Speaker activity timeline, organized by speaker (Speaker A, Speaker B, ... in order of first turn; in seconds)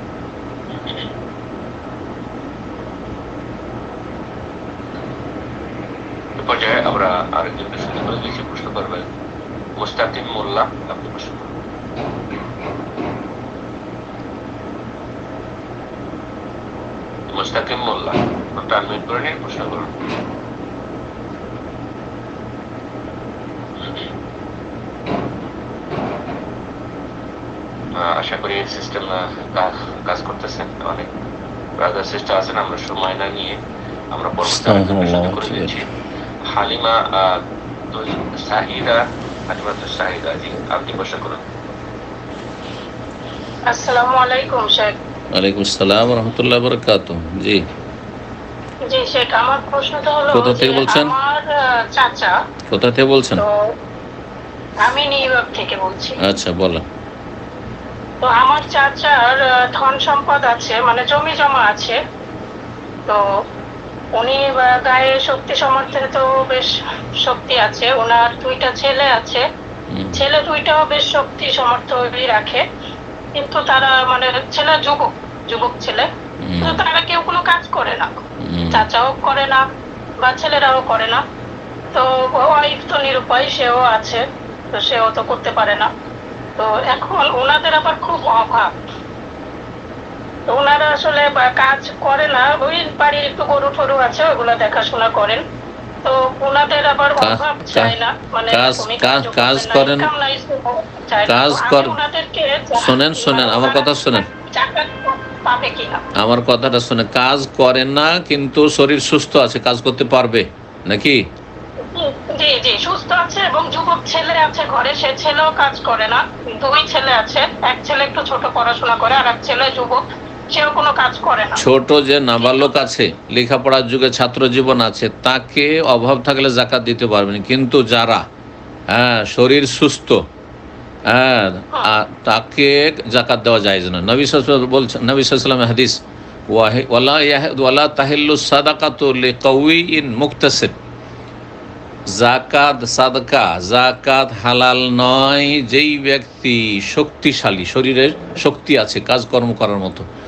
Speaker A: 6.4-9.1, 9.8-11.5, 17.3-19.9, 28.0-31.1, 31.8-33.6, 34.1-35.9, 36.5-37.4, 37.9-41.4
Speaker B: 34.4-35.8, 45.3-47.6, 50.3-51.1, 52.7-53.4, 56.2-56.9, 69.9-70.2, 76.4-76.8, 78.4-78.9, 97.2-97.9, 98.5-100.1, 101.2-102.0, 102.8-104.2, 106.2-111.2, 121.6-128.2, 128.9-130.2, 131.1-140.7, 142.1-150.1
Speaker C: 43.7-44.9, 48.9-52.3, 54.8-56.2, 58.2-62.0, 64.2-66.7, 67.2-69.4, 70.1-72.6, 73.4-76.1, 76.6-78.2, 78.7-79.6, 80.2-81.2, 81.9-85.9, 86.6-88.7, 90.5-95.4, 96.0-106.0, 111.9-121.6, 122.4-122.8